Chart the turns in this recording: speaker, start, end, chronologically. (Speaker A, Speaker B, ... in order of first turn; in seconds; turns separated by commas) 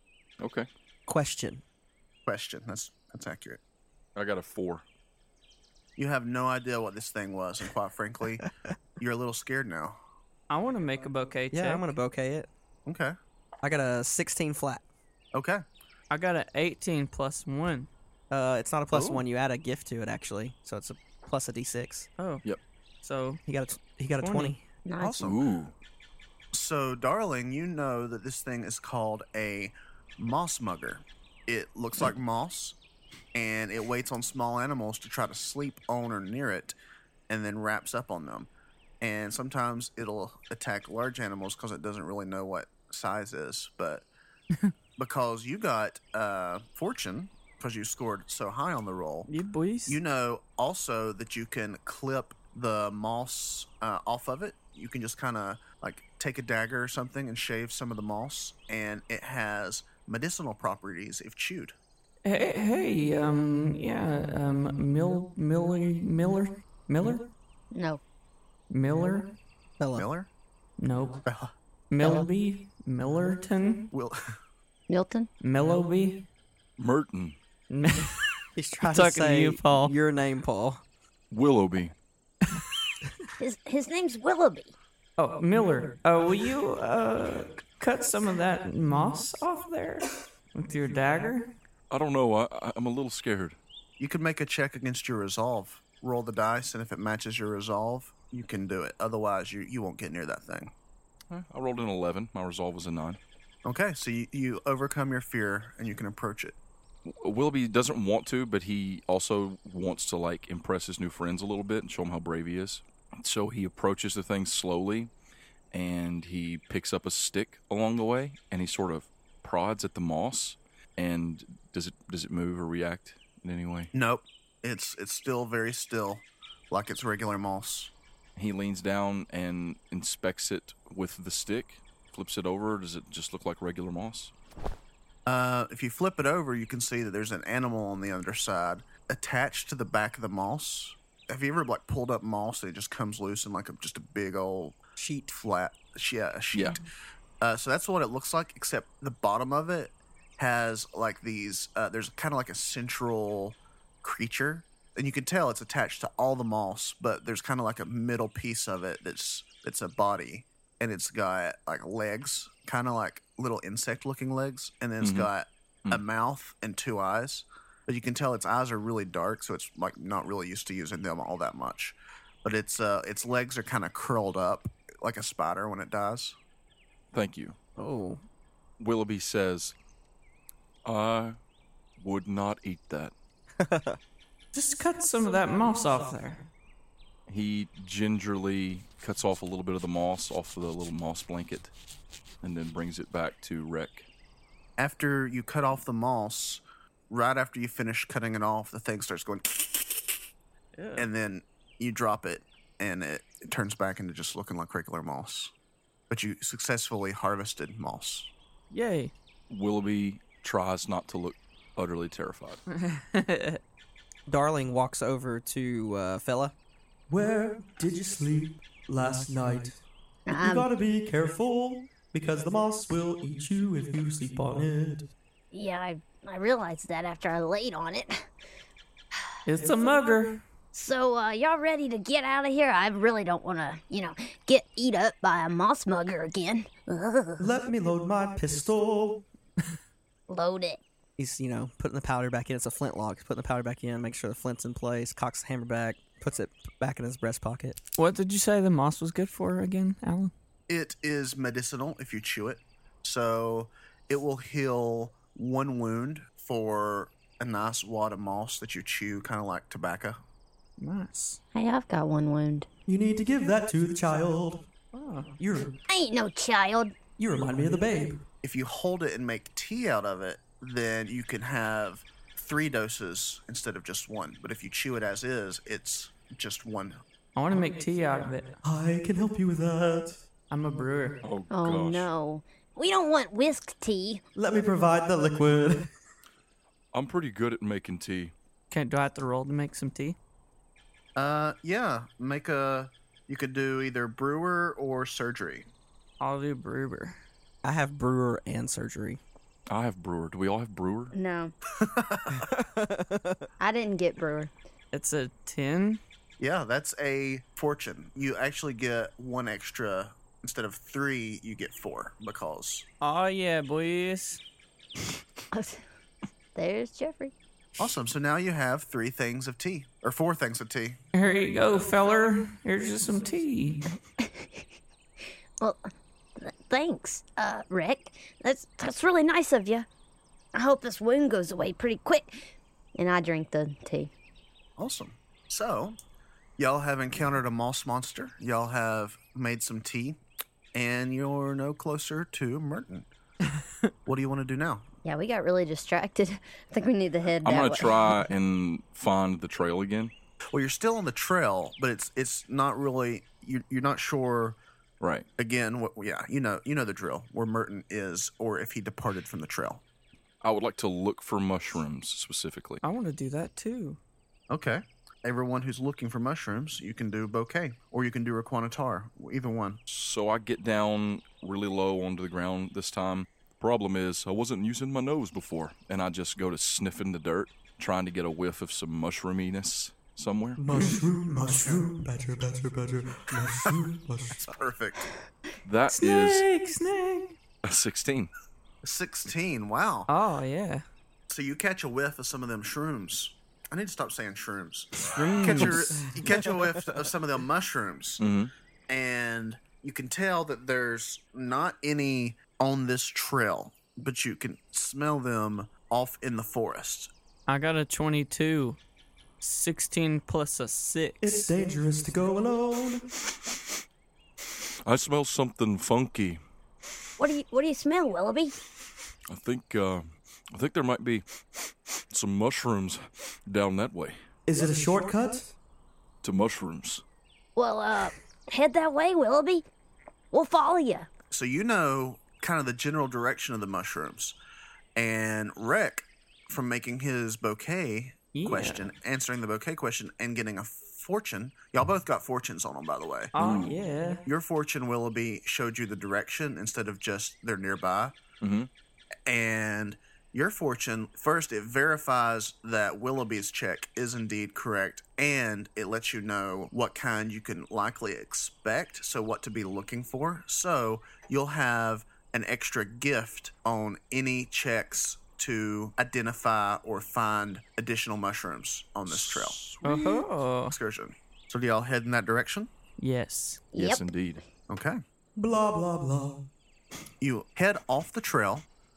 Speaker A: 0.4-0.7, Speaker B: 1.1-1.6, Speaker C: 2.2-3.6, Speaker A: 4.2-4.8, Speaker C: 6.0-8.5, Speaker C: 9.0-10.0, Speaker D: 10.5-11.8, Speaker B: 11.5-12.5, Speaker C: 12.9-13.2, Speaker B: 13.6-14.8, Speaker C: 15.3-15.6, Speaker D: 16.1-17.9, Speaker B: 18.3-22.1, Speaker C: 18.9-19.2, Speaker D: 23.0-23.4, Speaker B: 23.5-24.6, Speaker D: 24.2-24.6, Speaker E: 24.9-25.2, Speaker C: 25.0-25.4, Speaker A: 25.2-25.7, Speaker C: 26.5-32.8, Speaker C: 33.4-36.8, Speaker C: 37.3-38.5, Speaker C: 39.0-44.1, Speaker C: 45.0-49.3, Speaker D: 49.3-50.0, Speaker C: 49.9-61.8, Speaker D: 62.2-67.3, Speaker E: 67.7-68.0, Speaker D: 68.7-69.3, Speaker B: 69.8-70.1, Speaker C: 70.0-70.3, Speaker D: 70.8-71.2, Speaker C: 71.2-71.5, Speaker D: 71.9-73.9, Speaker E: 72.0-72.3, Speaker C: 73.9-74.2, Speaker E: 74.9-75.3, Speaker D: 75.4-76.3, Speaker A: 76.8-77.4, Speaker D: 77.7-78.2, Speaker B: 78.6-80.8, Speaker D: 78.8-79.9, Speaker A: 81.3-81.9, Speaker E: 83.4-84.7, Speaker D: 85.2-91.5, Speaker A: 91.9-93.6, Speaker C: 94.0-100.7, Speaker A: 101.3-103.2, Speaker C: 103.7-106.6, Speaker A: 107.1-115.1, Speaker A: 115.7-123.9, Speaker C: 123.9-127.9, Speaker A: 128.4-134.3, Speaker C: 135.3-144.8, Speaker B: 145.0-145.3, Speaker C: 145.3-146.8, Speaker A: 146.5-146.8, Speaker C: 147.4-176.4, Speaker A: 165.0-165.3, Speaker A: 177.1-177.6, Speaker B: 177.8-178.2, Speaker A: 178.8-179.8, Speaker A: 180.8-181.4, Speaker A: 182.0-183.1, Speaker B: 183.6-184.0, Speaker D: 184.5-186.5, Speaker A: 187.3-191.7, Speaker A: 192.4-194.1, Speaker C: 194.8-200.2, Speaker D: 200.8-201.1, Speaker C: 201.0-205.5, Speaker C: 206.1-208.3, Speaker D: 208.7-209.1, Speaker A: 209.5-212.6, Speaker D: 212.8-213.6, Speaker B: 214.3-216.6, Speaker F: 217.1-225.1, Speaker E: 220.3-220.7, Speaker E: 225.5-228.3, Speaker D: 229.4-230.4, Speaker E: 230.7-237.5, Speaker F: 237.4-239.2, Speaker E: 240.3-240.8, Speaker B: 241.2-247.8, Speaker D: 248.0-250.3, Speaker C: 250.7-260.2, Speaker D: 260.8-261.4, Speaker E: 261.5-262.7, Speaker F: 262.9-264.7, Speaker D: 264.9-265.3, Speaker F: 265.4-265.8, Speaker E: 265.9-267.0, Speaker F: 267.2-268.2, Speaker C: 268.4-277.0, Speaker D: 277.4-278.6, Speaker F: 278.6-280.2, Speaker D: 280.5-281.2, Speaker A: 281.2-282.1, Speaker E: 281.5-284.2, Speaker F: 284.4-285.9, Speaker A: 286.9-288.3, Speaker D: 288.7-290.2, Speaker C: 291.2-295.7, Speaker D: 296.2-297.2, Speaker B: 297.6-299.2, Speaker A: 299.7-301.1, Speaker E: 301.1-301.5, Speaker C: 301.8-302.5, Speaker B: 302.3-303.5, Speaker E: 303.6-304.5, Speaker D: 304.9-306.0, Speaker C: 306.4-312.9, Speaker D: 313.0-314.4, Speaker E: 315.5-315.8, Speaker E: 316.6-317.3, Speaker C: 317.8-321.0, Speaker D: 321.1-323.9, Speaker E: 324.2-324.6, Speaker E: 326.4-329.9, Speaker E: 330.6-334.1, Speaker C: 334.8-336.0, Speaker C: 336.6-340.2, Speaker C: 340.7-343.1, Speaker C: 344.1-344.9, Speaker E: 345.1-348.1, Speaker A: 347.4-350.1, Speaker C: 350.5-354.6, Speaker A: 355.0-355.2, Speaker C: 355.4-359.8, Speaker A: 360.4-362.8, Speaker D: 362.8-364.0, Speaker C: 364.5-369.8, Speaker A: 369.9-380.6, Speaker F: 380.6-384.4, Speaker C: 384.3-385.1, Speaker A: 385.6-386.4, Speaker D: 385.9-387.4, Speaker A: 387.6-388.3, Speaker C: 388.8-390.1, Speaker D: 390.1-390.8, Speaker C: 391.3-398.2, Speaker D: 395.1-396.2, Speaker A: 398.2-398.5, Speaker C: 398.9-407.1, Speaker D: 407.5-408.8, Speaker D: 409.4-411.5, Speaker F: 411.2-413.1, Speaker A: 414.9-416.4, Speaker E: 417.2-418.6, Speaker A: 419.3-424.2, Speaker F: 424.5-425.5, Speaker A: 426.2-427.0, Speaker E: 427.6-429.7, Speaker E: 430.3-431.1, Speaker C: 431.3-434.4, Speaker C: 435.0-443.3, Speaker D: 438.3-438.9, Speaker D: 443.4-444.2, Speaker A: 443.4-443.8, Speaker C: 444.3-448.2, Speaker A: 448.4-448.7, Speaker C: 449.3-469.6, Speaker A: 469.1-469.9, Speaker D: 469.8-470.8, Speaker C: 470.7-472.7, Speaker D: 473.0-473.6, Speaker E: 473.7-474.0, Speaker A: 473.8-474.4, Speaker C: 474.7-475.0, Speaker F: 475.4-476.5, Speaker C: 477.2-478.6